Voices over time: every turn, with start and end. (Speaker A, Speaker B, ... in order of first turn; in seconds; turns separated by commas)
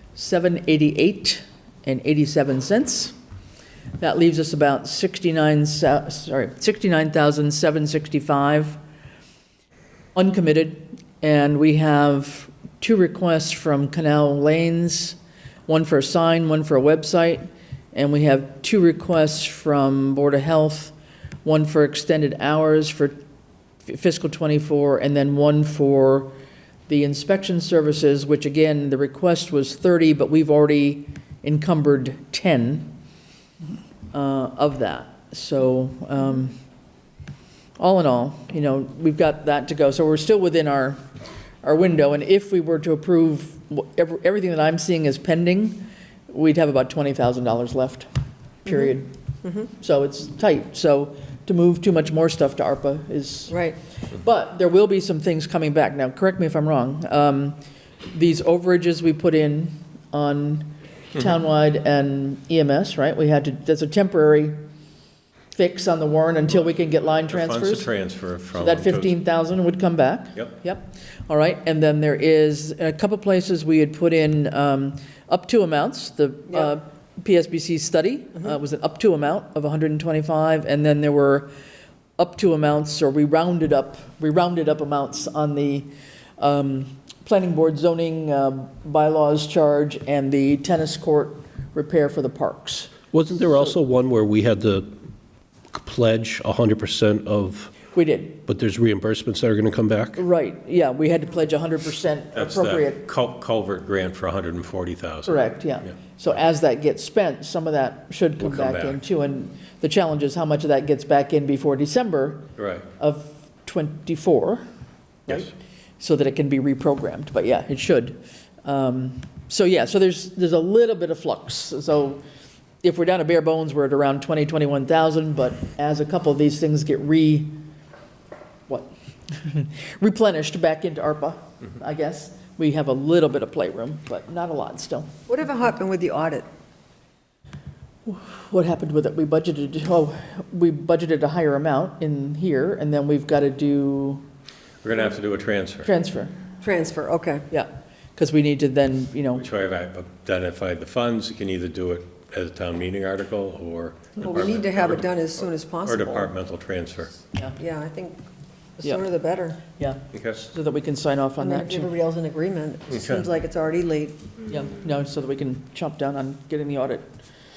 Speaker A: 0.1-3.1, Speaker A: 4.0-8.8, Speaker A: 10.1-23.2, Speaker A: 23.8-26.3, Speaker A: 26.9-32.9, Speaker A: 34.1-36.6, Speaker A: 37.8-41.0, Speaker A: 41.6-48.1, Speaker A: 48.6-49.1, Speaker B: 49.4-49.7, Speaker A: 49.7-57.6, Speaker B: 53.5-53.8, Speaker A: 58.1-64.6, Speaker A: 65.5-67.9, Speaker C: 66.7-69.1, Speaker A: 68.5-81.5, Speaker A: 82.2-92.9, Speaker D: 93.1-94.9, Speaker D: 95.7-97.8, Speaker A: 97.9-98.4, Speaker D: 98.5-100.2, Speaker A: 100.2-103.0, Speaker C: 102.3-105.5, Speaker A: 105.2-114.6, Speaker C: 108.4-109.0, Speaker C: 112.6-112.9, Speaker A: 115.3-122.2, Speaker A: 122.8-127.6, Speaker A: 128.7-135.1, Speaker B: 135.3-136.5, Speaker A: 138.1-144.2, Speaker C: 144.8-145.9, Speaker A: 145.8-146.3, Speaker B: 146.6-147.4, Speaker A: 147.5-149.4, Speaker C: 149.3-155.2, Speaker B: 154.2-156.3, Speaker C: 155.8-157.1, Speaker B: 157.6-158.2, Speaker B: 158.8-159.6, Speaker A: 159.8-161.9, Speaker C: 160.1-160.4, Speaker B: 161.4-164.3, Speaker C: 162.9-163.2, Speaker A: 164.5-167.0